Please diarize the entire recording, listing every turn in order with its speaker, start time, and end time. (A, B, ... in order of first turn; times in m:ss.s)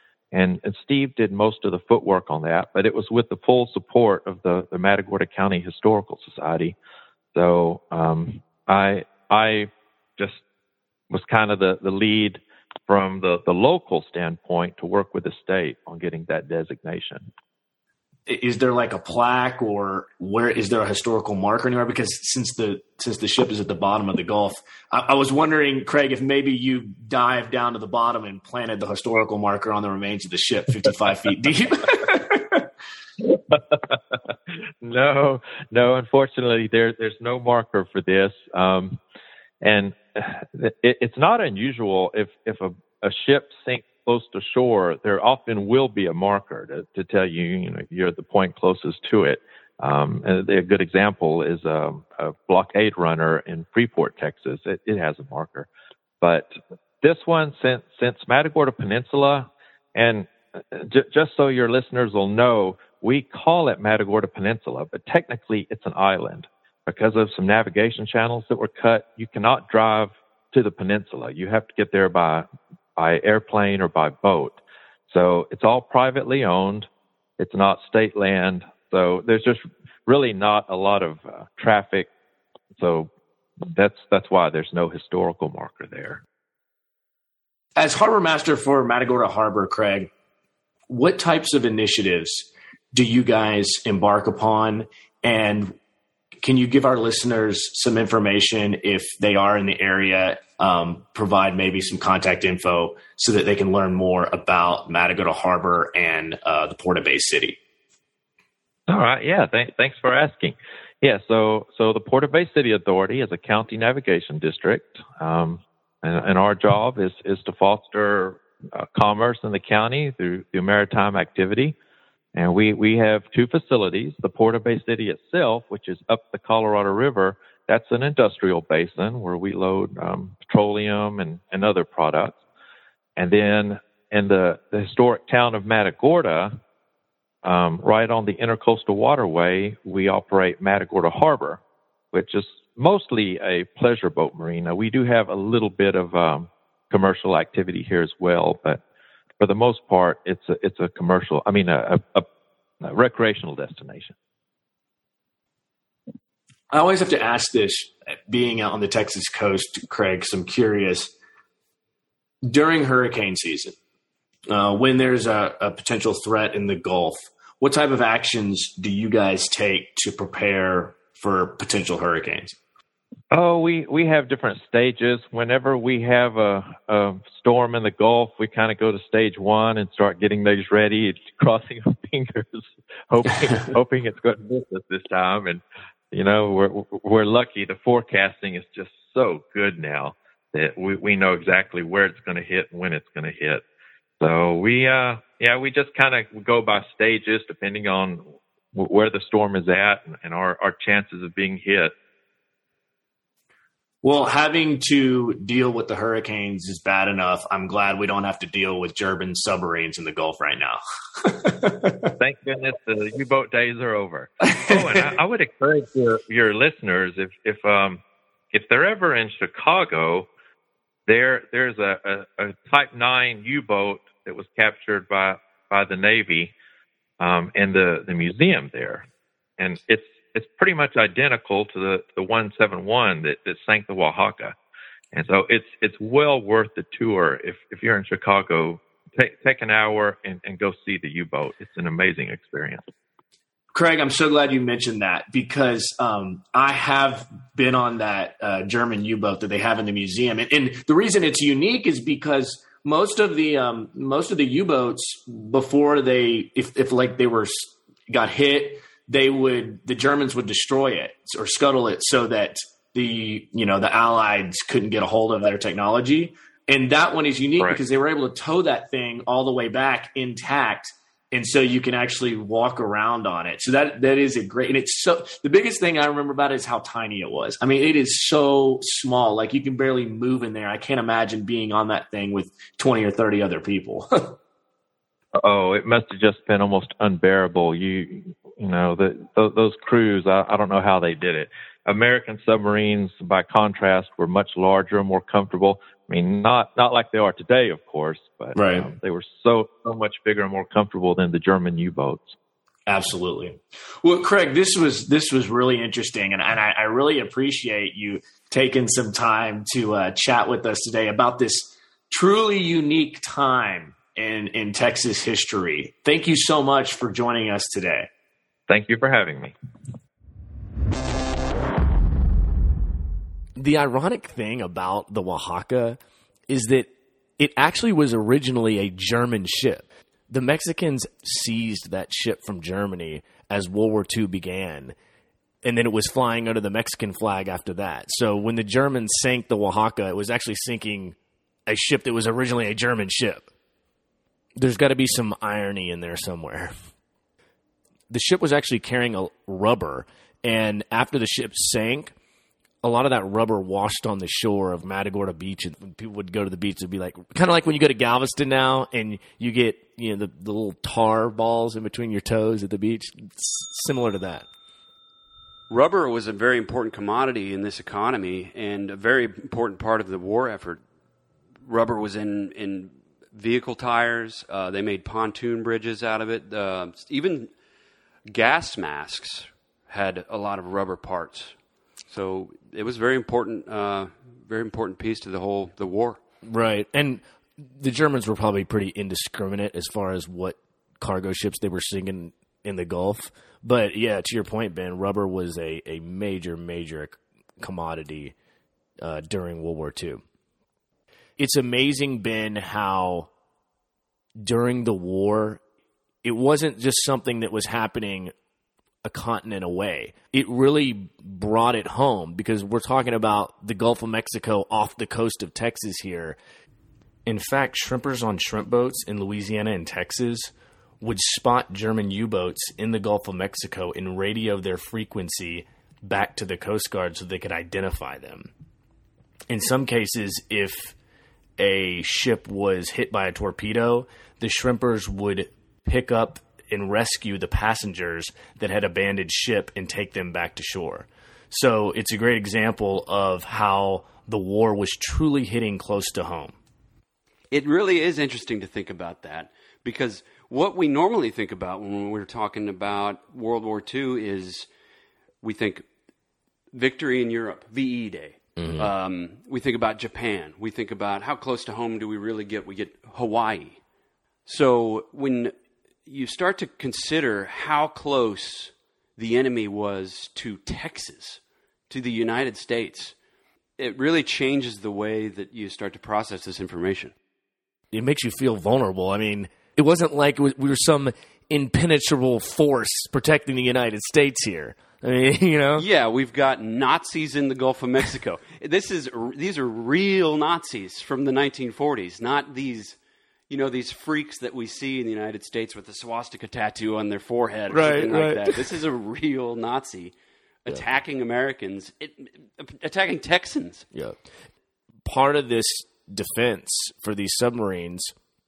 0:00.3-0:06.8 A
0:07.3-0:10.4 A
0:11.1-0:17.3 A
0:18.3-0:32.7 B
0:33.2-0:39.0 A
0:39.6-0:55.7 A
0:56.2-1:16.9 A
1:17.4-1:22.1 A
1:22.8-1:23.1 A
1:23.7-1:26.2 A
1:27.8-1:30.1 B
1:30.9-1:35.8 B
1:36.4-1:47.6 B
1:48.9-2:01.8 A
2:02.4-2:12.4 A
2:13.2-2:16.6 A
2:17.4-2:21.6 A
2:22.1-2:28.8 A
2:29.4-2:32.3 A
2:32.8-2:34.2 A
2:36.7-2:41.1 B
2:42.4-2:43.8 B
2:44.5-2:52.6 B
2:53.3-3:13.6 A
3:14.2-3:21.9 A
3:24.0-3:32.1 B
3:32.2-3:38.0 A
3:34.5-3:34.9 B
3:38.5-3:40.3 A
3:41.1-3:46.5 A
3:47.2-3:49.0 A
3:49.6-3:54.6 A
3:55.1-4:02.8 A
4:03.8-4:44.4 B
4:45.4-5:02.4 A
4:58.6-4:58.9 B
5:02.9-5:18.1 B
5:18.7-5:19.5 A
5:23.6-5:35.0 B
5:35.6-5:41.2 B
5:41.7-5:43.5 B
5:44.6-5:46.7 B
5:48.1-5:52.1 B
5:52.8-6:04.5 B
6:05.7-6:10.8 C
6:11.7-6:17.5 C
6:18.3-6:21.6 C
6:22.1-6:26.2 C
6:26.4-6:38.4 B
6:39.0-6:40.2 B
6:41.4-6:43.3 B
6:44.4-6:45.6 B
6:46.2-6:48.3 B
6:49.0-6:56.4 B
6:57.3-7:08.5 B
7:09.5-7:11.0 B
7:11.6-7:26.6 B
7:27.5-7:34.7 C
7:35.4-7:35.8 C
7:36.7-7:43.8 C
7:38.6-7:38.9 B
7:44.5-7:45.5 C
7:46.1-7:53.1 C
7:53.8-7:57.1 C
7:57.9-8:05.8 B
8:05.8-8:13.0 C
8:13.5-8:20.1 C
8:17.7-8:18.6 B
8:20.6-8:23.9 C
8:25.1-8:28.1 B